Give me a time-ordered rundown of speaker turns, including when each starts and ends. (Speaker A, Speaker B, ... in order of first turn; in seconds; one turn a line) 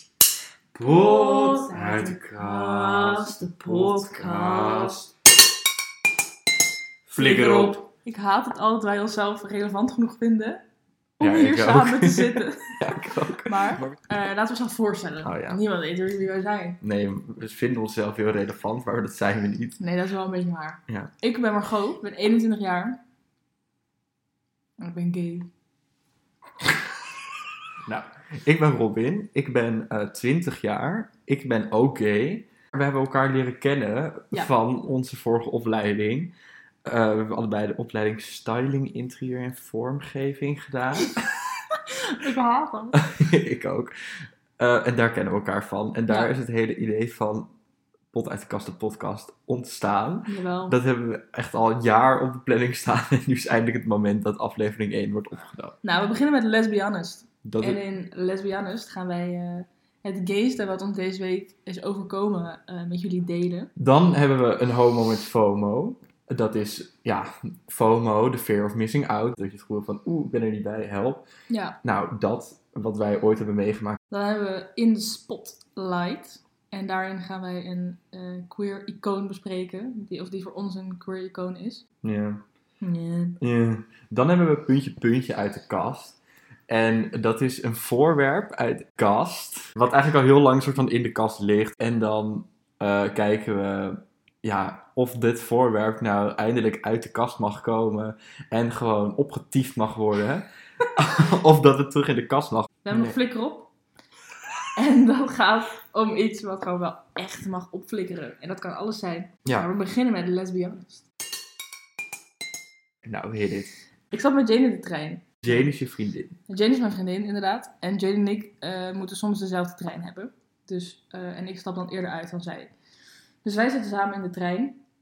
Speaker A: 0.7-5.1
Speaker B: 0.8-5.0
Speaker A: 7.1-7.8
Speaker B: 7.2-10.6
Speaker B: 11.2-16.8
Speaker A: 11.2-14.0
Speaker A: 15.2-15.6
Speaker A: 16.8-19.8
Speaker B: 19.8-23.0
Speaker B: 24.8-25.5
Speaker A: 27.9-36.3
Speaker A: 36.8-41.2
Speaker B: 41.0-43.0
Speaker A: 42.9-43.9
Speaker A: 44.6-47.5
Speaker A: 48.1-55.8
Speaker B: 50.3-50.8
Speaker B: 55.8-63.7
Speaker A: 57.4-57.8
Speaker A: 63.8-71.2
Speaker B: 71.5-71.8
Speaker A: 71.8-74.0
Speaker B: 74.1-81.8
Speaker A: 82.0-82.4
Speaker B: 82.8-83.4
Speaker A: 83.4-86.2
Speaker A: 86.7-103.2
Speaker B: 102.8-103.7
Speaker B: 104.8-111.0
Speaker A: 113.0-113.7
Speaker B: 114.1-115.7
Speaker A: 115.4-116.3
Speaker B: 116.5-122.7
Speaker B: 123.4-124.8